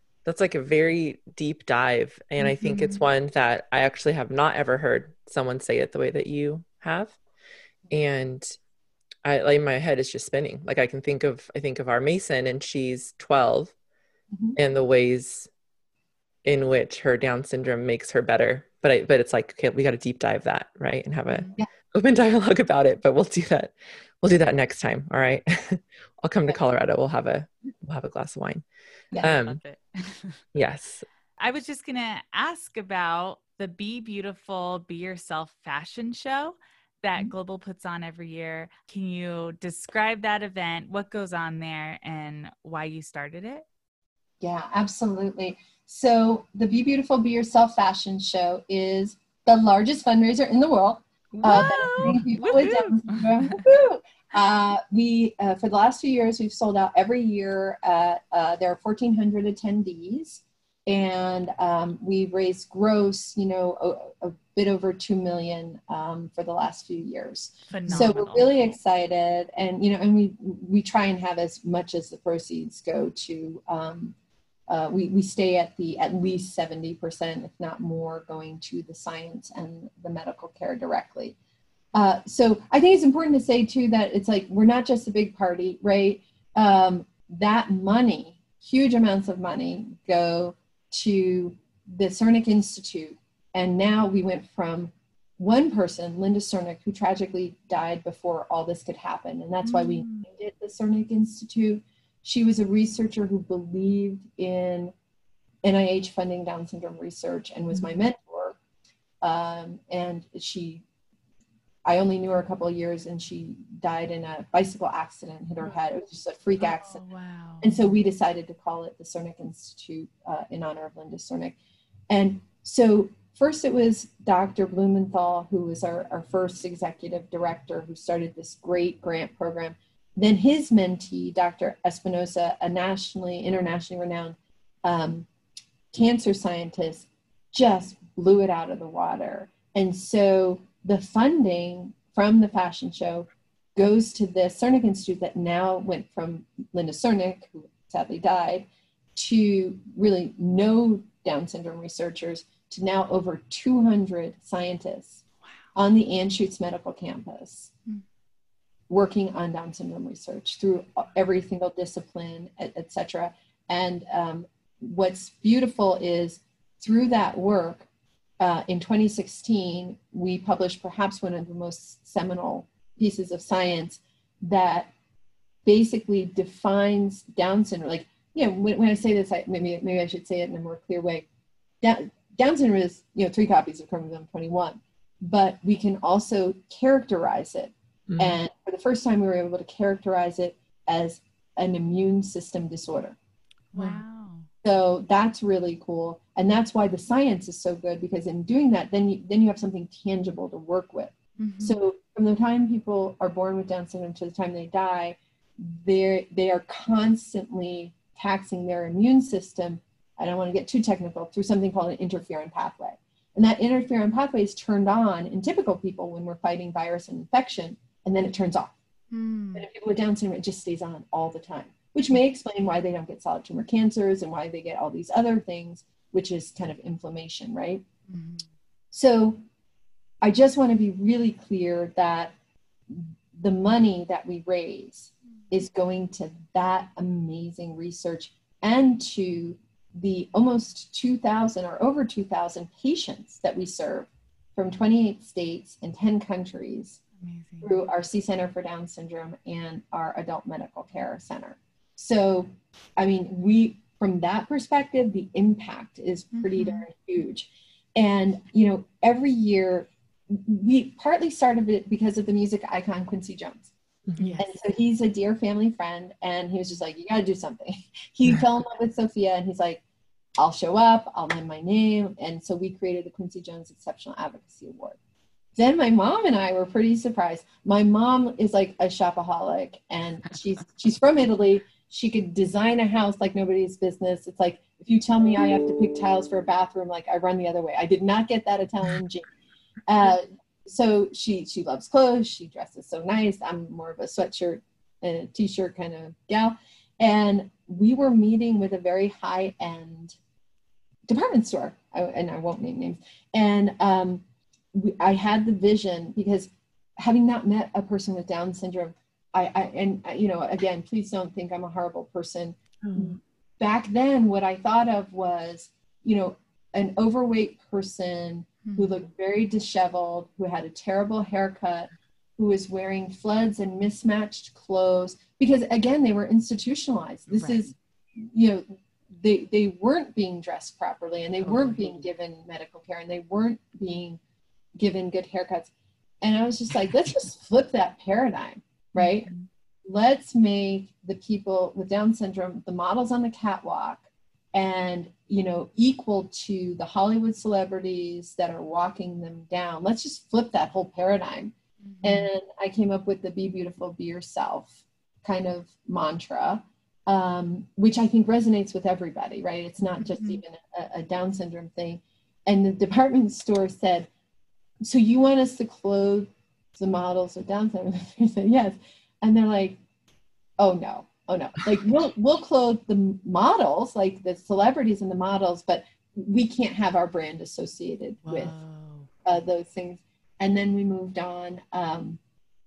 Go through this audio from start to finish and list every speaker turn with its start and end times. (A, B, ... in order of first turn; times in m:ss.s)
0:00.2-0:07.2 A
0:02.4-0:03.0 B
0:07.9-0:08.5 A
0:09.2-0:13.7 A
0:14.5-0:15.5 A
0:16.4-0:28.6 A
0:21.3-0:21.5 B
0:29.2-0:30.4 B
0:29.2-0:29.6 A
0:30.5-0:31.0 A
0:31.4-0:43.6 B
0:44.4-1:14.2 C
0:51.4-0:52.2 A
0:51.4-0:53.7 B
1:07.7-1:08.8 B
1:14.7-1:21.4 C
1:21.9-1:44.9 C
1:39.6-1:40.3 B
1:45.6-1:48.6 C
1:49.2-1:50.8 C
1:51.9-1:57.0 C
1:56.6-1:57.8 B
1:57.6-2:01.6 C
2:02.1-2:15.3 C
2:15.9-2:35.2 C
2:35.7-2:37.7 C
2:38.9-2:47.9 C
2:48.4-2:54.9 C
2:55.6-3:01.3 C
3:01.8-3:13.2 C
3:08.1-3:08.4 A
3:13.7-3:14.5 B
3:13.8-3:14.0 C
3:14.6-3:38.7 C
3:21.4-3:21.8 B
3:39.1-3:39.7 B
3:39.5-3:47.8 C
3:48.1-3:48.5 B
3:48.9-3:49.4 C
3:50.2-3:52.3 C
3:52.9-4:07.0 C
4:07.2-4:07.7 B
4:07.6-4:23.7 C
4:16.3-4:16.9 B
4:24.1-4:24.4 A
4:24.2-4:24.5 B
4:24.4-4:29.8 C
4:30.4-4:35.0 C
4:35.5-4:49.3 C
4:49.9-5:00.2 C
5:01.1-5:28.6 C
5:12.8-5:13.1 A
5:18.6-5:19.0 B
5:27.3-5:27.7 B
5:29.2-5:34.2 C
5:31.4-5:32.0 B
5:34.8-5:39.3 C
5:39.0-5:39.4 B
5:39.8-6:04.1 C
5:51.8-5:52.3 B
6:00.0-6:00.4 B
6:04.8-6:09.8 C
6:10.6-6:18.5 C
6:18.2-6:19.1 B
6:19.2-6:22.2 C